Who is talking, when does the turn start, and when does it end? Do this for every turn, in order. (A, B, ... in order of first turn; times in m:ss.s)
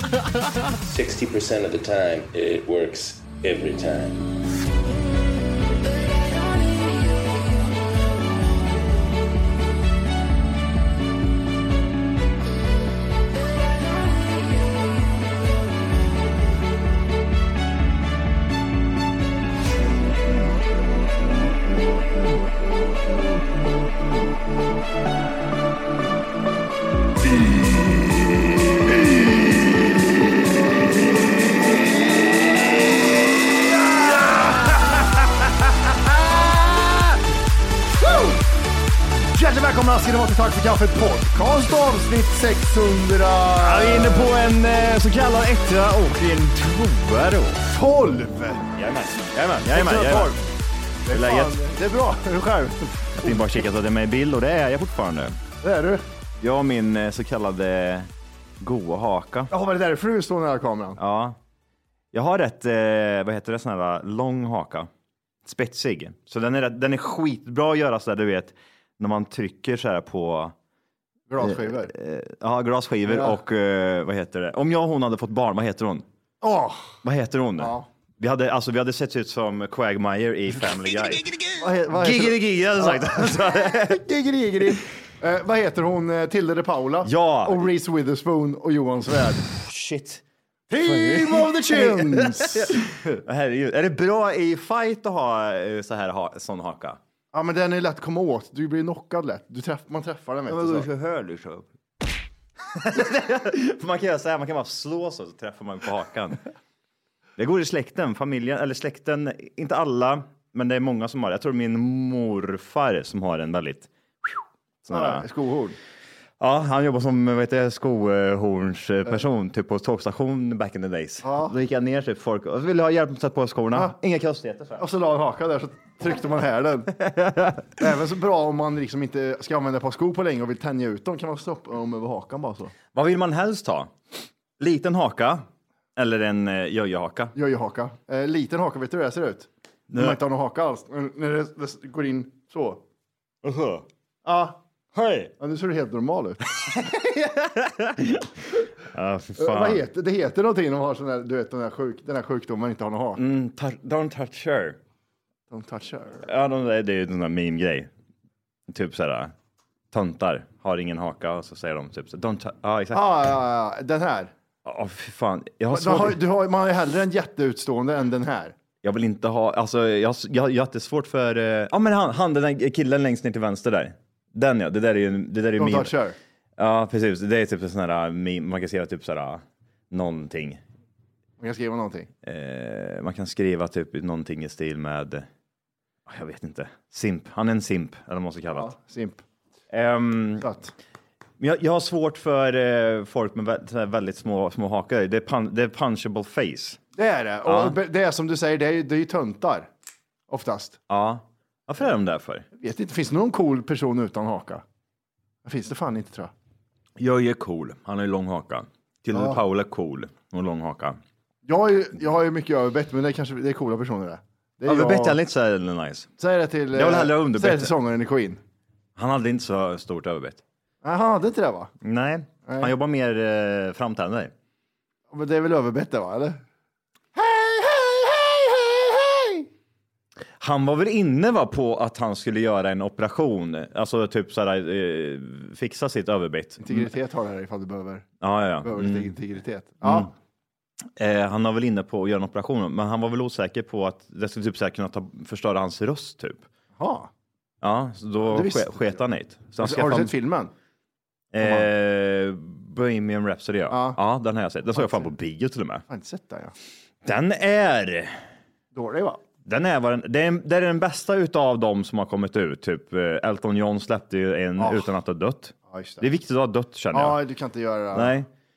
0:00.8-0:04.2 A
0:39.3-0:44.3 B
0:43.6-0:47.6 C
0:47.6-0:48.7 B
0:48.7-0:50.4 C
0:49.7-0:50.3 B
0:51.0-0:53.5 B
0:51.1-0:51.5 C
0:53.2-0:55.4 C
0:55.6-0:56.0 B
0:56.4-0:58.1 C
0:58.6-0:59.5 C
0:59.5-1:01.0 B
1:01.0-1:01.4 C
1:02.1-1:04.9 C
1:05.4-1:10.5 C
1:11.3-1:11.9 B
1:11.4-1:16.0 C
1:13.1-1:13.4 B
1:16.4-1:16.9 B
1:17.0-1:24.0 C
1:17.6-1:17.9 B
1:21.6-1:29.5 B
1:27.0-1:27.7 C
1:29.7-1:30.2 C
1:30.7-1:32.8 B
1:30.8-1:37.0 C
1:37.3-1:40.9 B
1:40.5-1:41.6 C
1:42.8-1:46.4 C
1:47.4-1:55.2 C
1:54.9-1:55.8 B
1:56.4-2:04.8 C
2:01.2-2:01.5 B
2:04.8-2:06.9 B
2:07.1-2:07.4 C
2:07.8-2:12.7 B
2:12.9-2:13.9 C
2:14.6-2:15.4 C
2:16.0-2:17.3 C
2:17.3-2:22.8 B
2:19.9-2:20.2 C
2:23.4-2:23.8 C
2:24.2-2:24.6 B
2:24.9-2:25.3 C
2:25.4-2:26.4 B
2:26.6-2:28.2 C
2:28.9-2:29.8 C
2:29.4-2:33.2 B
2:33.2-2:34.8 C
2:35.5-2:36.2 B
2:36.3-2:37.9 C
2:38.7-2:39.3 C
2:39.9-2:43.0 C
2:42.9-2:44.3 B
2:44.6-2:46.2 C
2:45.7-2:48.5 B
2:48.8-2:55.9 C
2:55.6-2:56.2 B
2:56.6-3:00.6 C
3:01.4-3:02.1 B
3:02.2-3:05.2 C
3:06.1-3:08.7 C
3:08.5-3:09.2 B
3:09.7-3:10.5 C
3:10.4-3:10.7 B
3:11.4-3:16.8 C
3:17.0-3:19.7 B
3:17.4-3:17.8 C
3:20.3-3:20.8 B
3:20.9-3:22.4 C
3:22.6-3:24.6 B
3:25.4-3:26.3 B
3:27.0-3:31.0 C
3:29.1-3:29.4 B
3:31.4-3:35.2 B
3:34.6-3:36.1 C
3:36.2-3:38.4 B
3:36.7-3:37.7 C
3:39.0-3:40.4 C
3:40.8-3:41.7 B
3:41.8-3:44.3 C
3:42.4-3:42.7 B
3:45.1-3:46.4 B
3:47.1-3:49.5 B
3:50.4-3:56.9 C
3:56.6-3:58.0 B
3:58.2-3:59.1 C
3:58.6-4:00.1 B
4:01.0-4:06.4 C
4:06.8-4:07.1 B
4:07.6-4:10.1 C
4:08.3-4:09.0 B
4:09.6-4:10.5 B
4:11.3-4:15.8 C
4:11.4-4:11.7 B
4:13.7-4:14.0 B
4:14.7-4:15.1 B
4:15.9-4:16.5 B
4:17.0-4:18.1 C
4:18.7-4:19.2 B
4:19.4-4:27.2 C
4:24.6-4:24.9 B
4:25.7-4:26.0 B
4:26.9-4:28.1 B
4:27.9-4:28.3 C